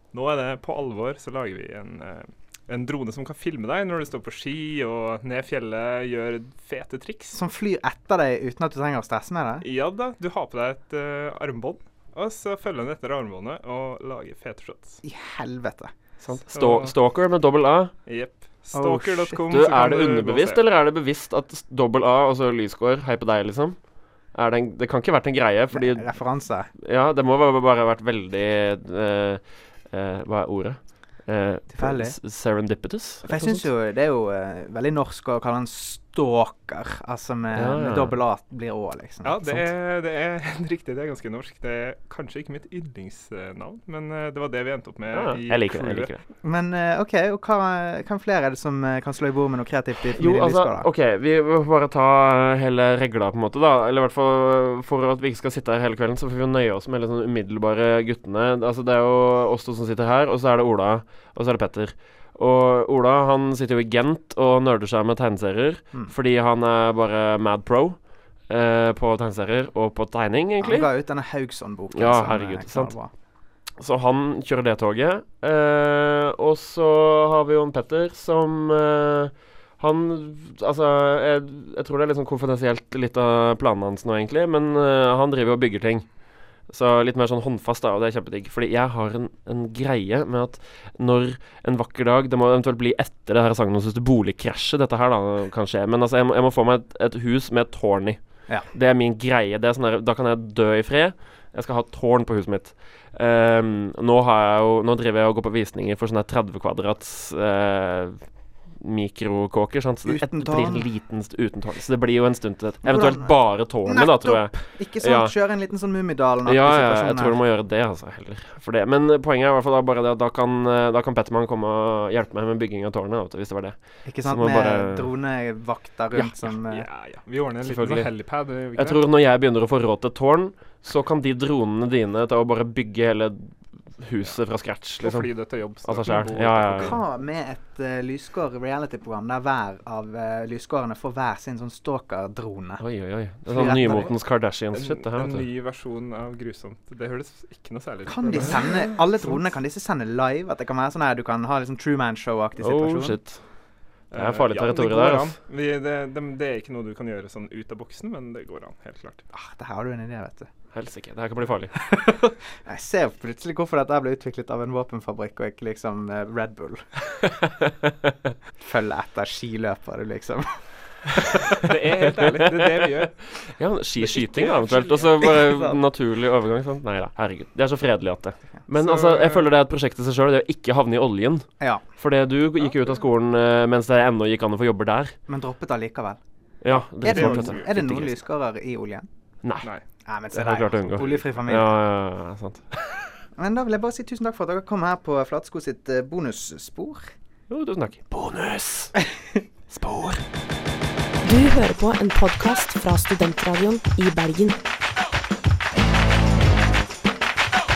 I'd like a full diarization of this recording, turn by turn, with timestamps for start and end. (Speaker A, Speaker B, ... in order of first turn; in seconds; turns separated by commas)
Speaker A: 0.1-7.3, Speaker B: 7.3-9.7, Speaker A: 9.6-15.0, Speaker B: 15.0-15.9, Speaker C: 16.2-17.9, Speaker A: 16.5-16.9, Speaker A: 18.1-20.6, Speaker B: 18.7-19.5, Speaker C: 19.5-23.8, Speaker C: 24.3-26.1, Speaker B: 25.7-26.7, Speaker C: 26.8-33.6, Speaker B: 31.7-32.1, Speaker B: 33.2-39.7, Speaker C: 37.5-38.1, Speaker A: 39.2-46.1, Speaker C: 45.1-46.2, Speaker B: 46.4-50.9, Speaker C: 50.0-68.0, Speaker C: 68.5-70.9, Speaker B: 70.6-73.1, Speaker C: 71.9-72.9, Speaker C: 73.8-86.0, Speaker C: 86.7-98.2, Speaker C: 98.7-108.2, Speaker C: 108.8-115.3, Speaker B: 110.0-110.9, Speaker B: 112.8-117.4, Speaker C: 116.4-125.1, Speaker B: 124.0-126.8, Speaker A: 126.2-129.0, Speaker C: 127.6-128.1, Speaker C: 128.8-135.3, Speaker A: 135.0-137.0, Speaker C: 135.8-136.9, Speaker B: 136.8-142.8, Speaker C: 142.8-145.4, Speaker B: 143.5-144.1, Speaker A: 144.7-149.4, Speaker B: 148.1-153.2, Speaker C: 152.6-153.4, Speaker A: 154.1-159.2, Speaker C: 154.2-155.3, Speaker B: 159.3-160.5, Speaker C: 160.7-161.7, Speaker B: 161.8-166.8, Speaker C: 167.4-167.9, Speaker B: 168.6-170.4, Speaker B: 171.1-171.7, Speaker A: 171.6-173.2, Speaker C: 171.6-181.5, Speaker A: 174.0-175.4, Speaker A: 178.8-179.4, Speaker C: 182.0-185.1, Speaker B: 185.3-186.2, Speaker C: 186.6-188.2, Speaker A: 186.7-187.7, Speaker B: 187.0-189.1, Speaker C: 189.4-189.7, Speaker B: 190.0-191.7, Speaker C: 190.3-193.1, Speaker B: 193.3-197.0, Speaker C: 197.5-198.9, Speaker C: 199.7-200.2, Speaker D: 201.2-204.6